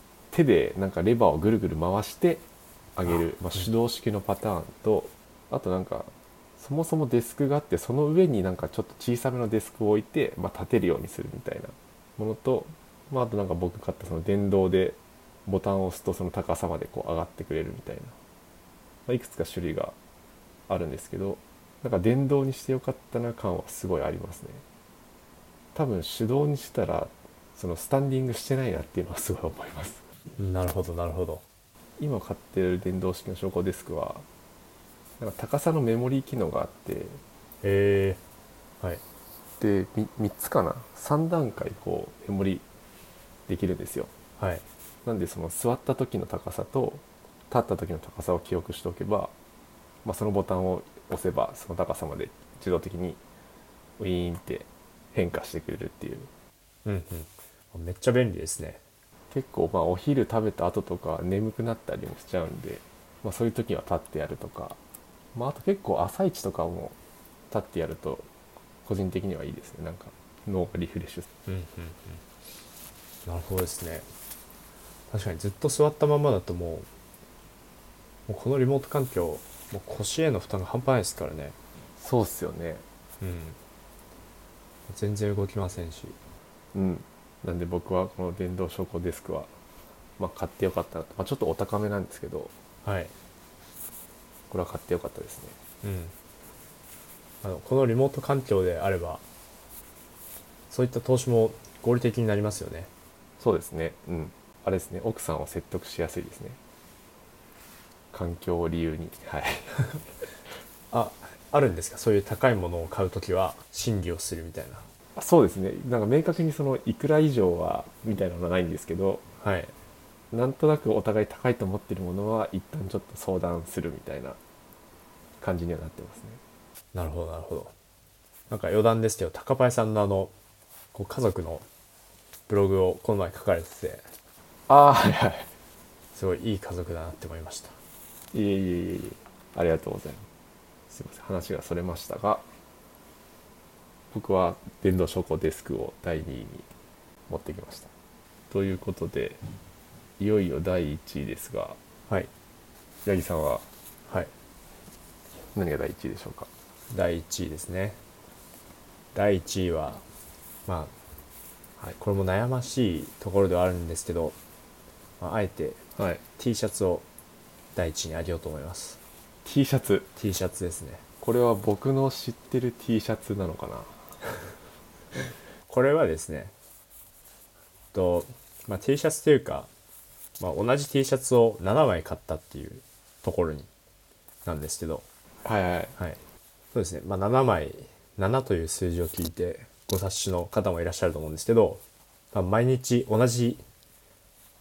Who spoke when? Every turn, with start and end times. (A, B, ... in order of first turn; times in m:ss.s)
0:00.3-0:18.2 A
0:19.1-0:20.0 A
0:20.7-0:24.6 A
0:25.7-0:30.0 A
0:30.4-0:31.4 B
0:32.0-0:34.2 A
0:35.2-0:37.2 A
0:37.6-0:38.2 B
0:39.6-0:42.6 A
0:43.5-0:44.1 A
0:44.4-0:44.6 B
0:45.0-0:49.3 A
0:50.0-0:53.2 A
0:54.0-0:56.3 A
0:56.8-0:58.8 B
0:59.3-1:04.8 A
1:05.3-1:07.0 A
1:07.5-1:08.3 A
1:08.8-1:11.3 A
1:11.5-1:12.2 B
1:13.2-1:14.1 B
1:15.1-1:16.9 B
1:18.3-1:21.6 B
1:22.0-1:22.8 A
1:23.2-1:23.6 B
1:24.9-1:26.2 B
1:26.7-1:29.5 A
1:30.2-1:32.5 A
1:32.8-1:33.1 B
1:34.5-1:35.6 A
1:35.8-1:36.1 B
1:37.4-1:39.2 B
1:40.7-1:42.9 B
1:43.4-1:46.6 A
1:48.1-1:49.8 A
1:50.9-1:54.8 B
1:55.2-1:59.2 A
1:59.4-1:59.7 B
2:00.3-2:04.4 A
2:05.4-2:06.4 A
2:06.9-2:07.7 B
2:08.5-2:10.3 B
2:10.9-2:11.6 B
2:12.5-2:14.0 B
2:14.7-2:15.5 A
2:16.1-2:17.8 B
2:18.3-2:20.2 A
2:20.9-2:22.4 A
2:24.1-2:26.7 A
2:27.3-2:27.9 A
2:28.5-2:29.4 A
2:30.2-2:31.8 A
2:33.0-2:33.6 A
2:35.5-2:36.5 A
2:36.9-2:38.0 B
2:39.1-2:40.0 B
2:40.6-2:40.9 B
2:42.0-2:44.4 B
2:45.2-2:45.8 B
2:46.0-2:46.2 A
2:46.4-2:47.0 B
2:47.7-2:49.0 B
2:49.4-2:50.1 A
2:50.2-2:51.0 B
2:51.2-2:54.0 A
2:55.7-2:56.5 B
2:57.9-2:59.7 B
3:00.4-3:03.7 B
3:04.4-3:05.0 B
3:05.4-3:05.9 A
3:06.7-3:13.6 B